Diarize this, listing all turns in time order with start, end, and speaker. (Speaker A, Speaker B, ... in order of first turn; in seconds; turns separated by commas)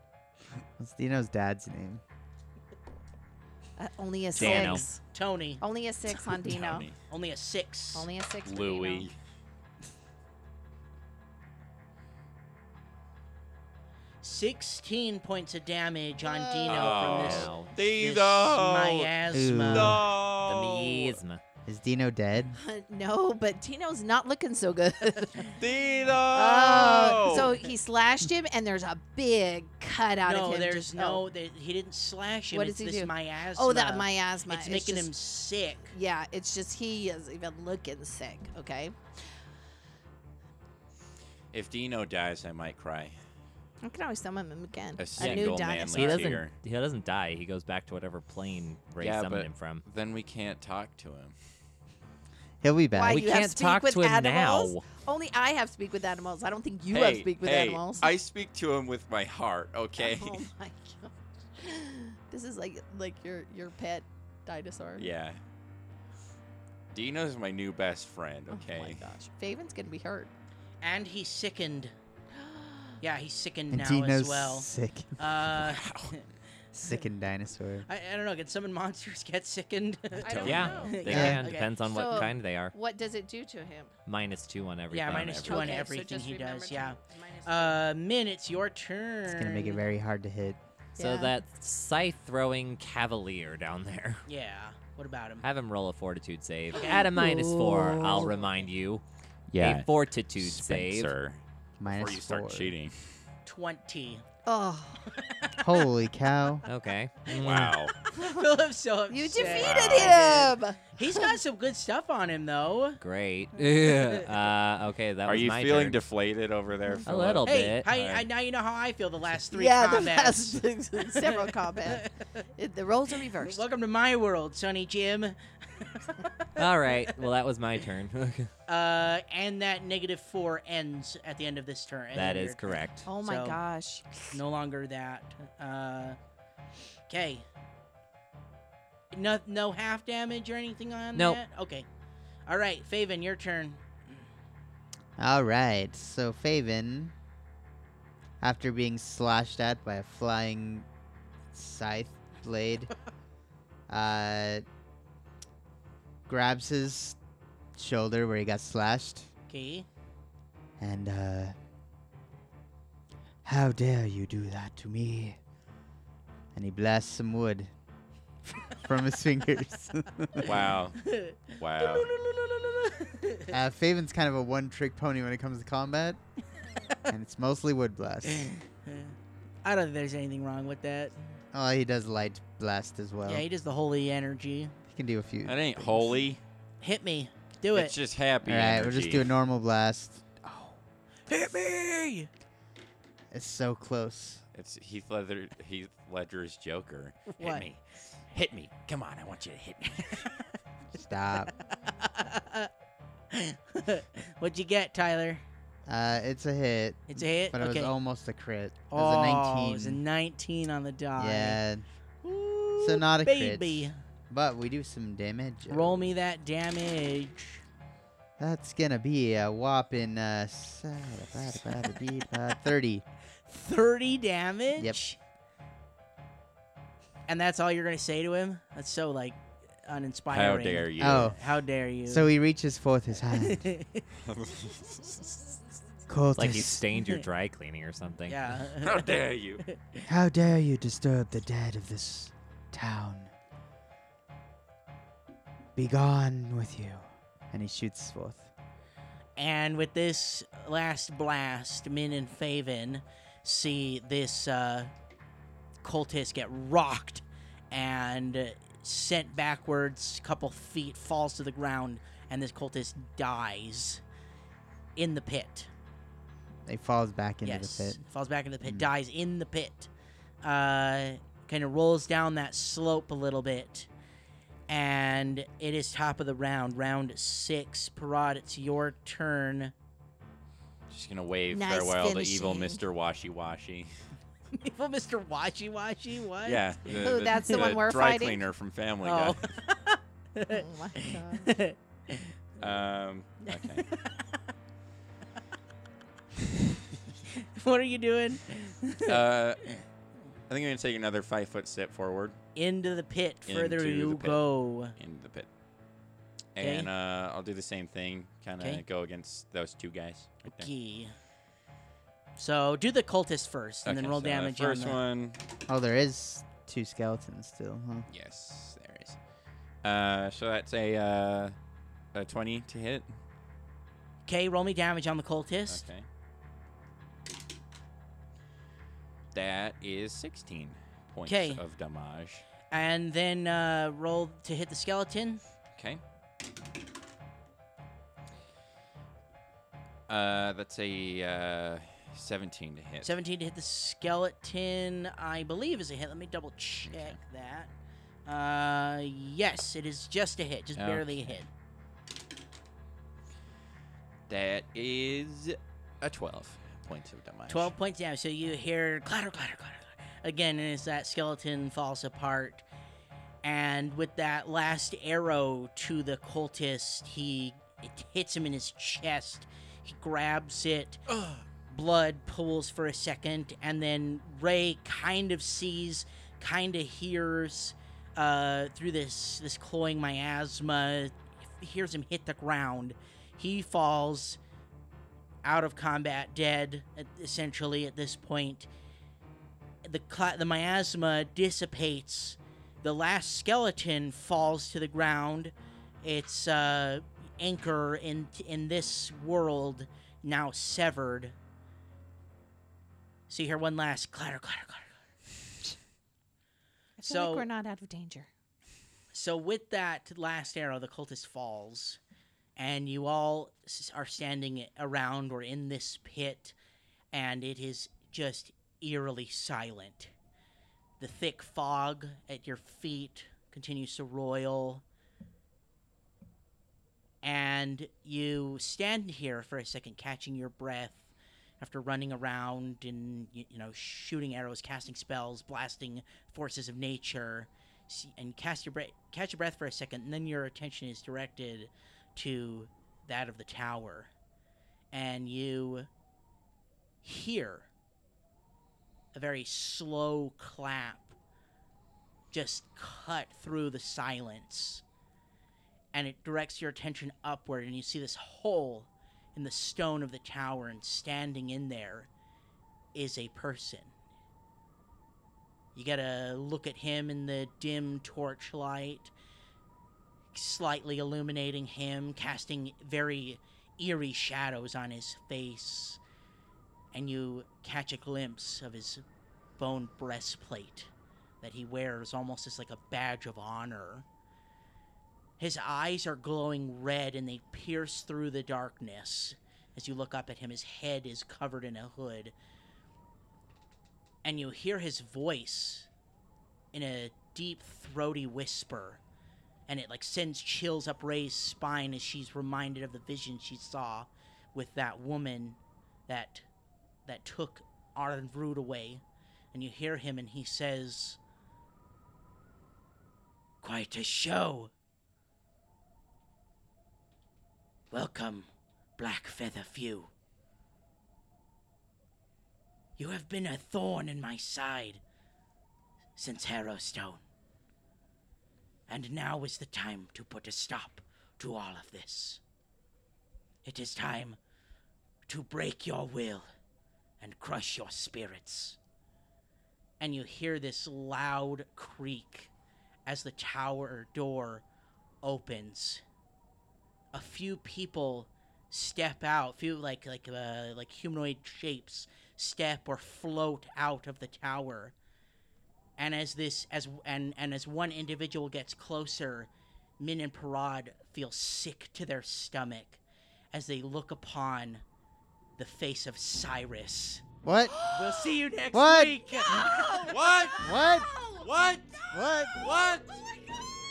Speaker A: 0.8-2.0, Speaker B: 3.8-5.0, Speaker C: 4.3-4.8, Speaker D: 4.3-5.6, Speaker B: 5.6-6.9, Speaker E: 6.4-7.0, Speaker D: 7.1-8.1, Speaker B: 7.9-9.1, Speaker E: 8.4-9.2, Speaker D: 14.2-20.0, Speaker B: 16.2-17.1, Speaker E: 16.6-21.2, Speaker C: 17.0-17.7, Speaker A: 19.3-20.1, Speaker C: 20.4-21.4, Speaker A: 21.7-22.6, Speaker B: 22.6-25.6, Speaker E: 25.5-27.6, Speaker B: 26.3-31.2, Speaker D: 30.2-35.9, Speaker B: 32.5-35.1, Speaker B: 35.9-39.0, Speaker E: 41.5-43.2, Speaker B: 43.8-46.4, Speaker E: 45.0-46.5, Speaker C: 45.2-49.8, Speaker E: 49.0-51.4, Speaker A: 52.6-53.3, Speaker B: 52.9-58.1, Speaker C: 53.1-54.9, Speaker E: 56.9-60.5, Speaker B: 60.0-65.1, Speaker E: 65.0-65.4, Speaker E: 66.9-69.1, Speaker B: 68.5-70.3, Speaker D: 70.8-71.9, Speaker B: 72.4-73.0, Speaker D: 73.0-76.3, Speaker A: 73.7-75.4, Speaker E: 75.6-76.2, Speaker A: 76.7-77.9, Speaker D: 77.9-82.3, Speaker B: 80.2-81.3, Speaker E: 80.2-80.8, Speaker C: 80.4-82.7, Speaker A: 81.1-81.5, Speaker B: 81.9-83.9, Speaker C: 84.1-85.8, Speaker D: 84.9-89.8, Speaker E: 85.1-85.7, Speaker B: 85.4-87.8, Speaker A: 89.3-90.6, Speaker B: 91.0-91.4, Speaker C: 91.0-94.2, Speaker D: 94.3-95.5, Speaker C: 95.4-99.0, Speaker B: 96.7-98.6, Speaker E: 99.5-103.2, Speaker C: 99.6-101.1, Speaker A: 101.8-102.7, Speaker D: 103.5-104.2, Speaker B: 104.5-105.1, Speaker D: 105.0-105.8, Speaker A: 105.6-106.7, Speaker C: 106.7-107.8, Speaker D: 107.3-113.0, Speaker E: 107.3-108.0, Speaker B: 108.1-108.5, Speaker B: 109.1-111.4, Speaker E: 109.4-110.4, Speaker C: 113.0-116.0, Speaker D: 113.7-114.3, Speaker E: 115.2-118.3, Speaker C: 117.1-117.9, Speaker D: 117.5-122.5, Speaker B: 119.5-123.6, Speaker D: 123.1-126.6, Speaker C: 126.6-128.5, Speaker D: 128.7-133.6, Speaker C: 132.1-133.1, Speaker B: 133.1-134.2, Speaker D: 134.3-136.2, Speaker D: 137.1-137.5, Speaker D: 139.1-141.9, Speaker C: 141.2-141.4, Speaker D: 142.5-144.2, Speaker A: 145.2-147.1, Speaker A: 148.4-150.9, Speaker A: 151.5-152.9, Speaker A: 153.9-154.6, Speaker A: 156.3-157.2, Speaker A: 157.8-159.3, Speaker D: 159.5-159.9, Speaker A: 160.8-161.6, Speaker A: 163.4-165.4, Speaker A: 166.5-167.7, Speaker A: 168.8-170.5, Speaker E: 170.4-172.1, Speaker D: 170.4-173.5, Speaker A: 173.5-176.2, Speaker A: 177.1-178.5, Speaker D: 178.3-181.2, Speaker A: 181.5-183.4, Speaker D: 183.2-184.8, Speaker A: 184.9-186.2, Speaker E: 185.4-186.4, Speaker D: 186.8-187.9, Speaker E: 187.7-189.3, Speaker A: 188.4-190.8, Speaker D: 191.3-192.3, Speaker A: 193.3-194.4, Speaker E: 194.6-200.4, Speaker D: 197.3-197.7, Speaker A: 200.9-201.5, Speaker D: 201.8-202.7, Speaker D: 203.3-205.4, Speaker A: 205.9-210.0, Speaker D: 207.1-207.9, Speaker D: 208.9-211.6, Speaker A: 211.2-211.9, Speaker D: 212.2-214.0, Speaker A: 212.8-216.0, Speaker D: 215.7-217.6, Speaker A: 218.4-223.1, Speaker D: 223.5-225.2, Speaker A: 224.8-225.0, Speaker D: 227.3-232.3, Speaker E: 230.3-231.3, Speaker A: 231.0-231.4, Speaker A: 232.1-233.7, Speaker D: 233.3-234.1, Speaker E: 234.2-235.3, Speaker A: 236.1-236.9, Speaker C: 236.3-238.6, Speaker D: 236.9-237.2, Speaker D: 238.3-240.1, Speaker E: 238.8-239.6, Speaker A: 240.1-243.3, Speaker A: 245.8-248.5, Speaker D: 249.4-254.9, Speaker D: 255.8-264.0, Speaker D: 265.0-265.7, Speaker A: 266.7-268.0, Speaker D: 267.4-269.9, Speaker D: 270.4-273.9, Speaker D: 274.7-279.7, Speaker E: 280.9-283.9, Speaker B: 281.5-282.9, Speaker D: 284.5-287.4, Speaker E: 286.4-289.6, Speaker B: 287.0-288.5, Speaker D: 289.0-292.8, Speaker B: 290.5-291.5, Speaker E: 292.6-293.9, Speaker D: 293.5-294.4, Speaker D: 297.3-299.2, Speaker E: 299.1-299.8, Speaker E: 300.5-302.4, Speaker D: 302.6-305.0, Speaker E: 303.5-305.5, Speaker E: 306.6-310.7, Speaker D: 306.6-306.9, Speaker D: 310.4-311.1, Speaker D: 312.4-315.0, Speaker E: 313.9-315.4, Speaker A: 315.7-318.1, Speaker E: 318.1-319.2, Speaker E: 319.8-321.6, Speaker E: 322.1-323.2, Speaker D: 324.3-325.8, Speaker E: 325.7-326.1, Speaker E: 329.3-332.5, Speaker D: 331.3-331.6, Speaker D: 332.7-335.4, Speaker E: 335.8-336.0, Speaker E: 340.1-343.1, Speaker D: 343.0-347.7, Speaker E: 346.9-347.2, Speaker D: 348.3-351.5, Speaker E: 350.8-351.4, Speaker E: 354.3-357.7, Speaker D: 357.5-362.6, Speaker D: 363.4-371.1, Speaker E: 371.1-371.4, Speaker D: 371.7-384.4, Speaker D: 385.4-388.7, Speaker D: 389.8-401.4, Speaker D: 403.3-405.0, Speaker B: 407.0-408.3, Speaker D: 407.0-407.5, Speaker D: 409.1-412.0, Speaker D: 412.6-416.6, Speaker D: 417.1-420.1, Speaker D: 421.0-424.8, Speaker D: 427.2-444.1, Speaker D: 444.9-445.9, Speaker D: 447.0-447.7, Speaker D: 449.1-451.2, Speaker D: 452.3-454.8, Speaker D: 455.9-462.1, Speaker D: 462.9-463.9, Speaker D: 465.8-469.1, Speaker D: 470.3-476.0, Speaker D: 476.9-479.0, Speaker D: 479.6-480.9, Speaker D: 481.4-484.1, Speaker D: 485.4-492.3, Speaker D: 494.2-495.9, Speaker D: 496.7-499.0, Speaker D: 499.7-506.5, Speaker D: 507.1-509.0, Speaker D: 509.5-511.2, Speaker D: 513.6-514.7, Speaker D: 517.9-520.1, Speaker D: 523.0-525.0, Speaker D: 526.2-527.2, Speaker D: 528.9-532.4, Speaker D: 533.6-534.4, Speaker D: 535.3-536.5, Speaker D: 537.2-538.8, Speaker D: 540.0-542.5, Speaker D: 543.1-544.6, Speaker D: 545.2-546.0, Speaker D: 547.1-555.0, Speaker D: 556.0-563.0, Speaker D: 563.5-564.8, Speaker D: 565.6-567.2, Speaker A: 567.4-567.9, Speaker B: 567.8-568.3, Speaker D: 567.9-570.0, Speaker A: 568.7-569.7, Speaker B: 569.4-571.5, Speaker E: 570.1-570.7, Speaker A: 570.5-571.1, Speaker E: 571.4-573.1, Speaker A: 572.1-572.6, Speaker B: 572.3-573.6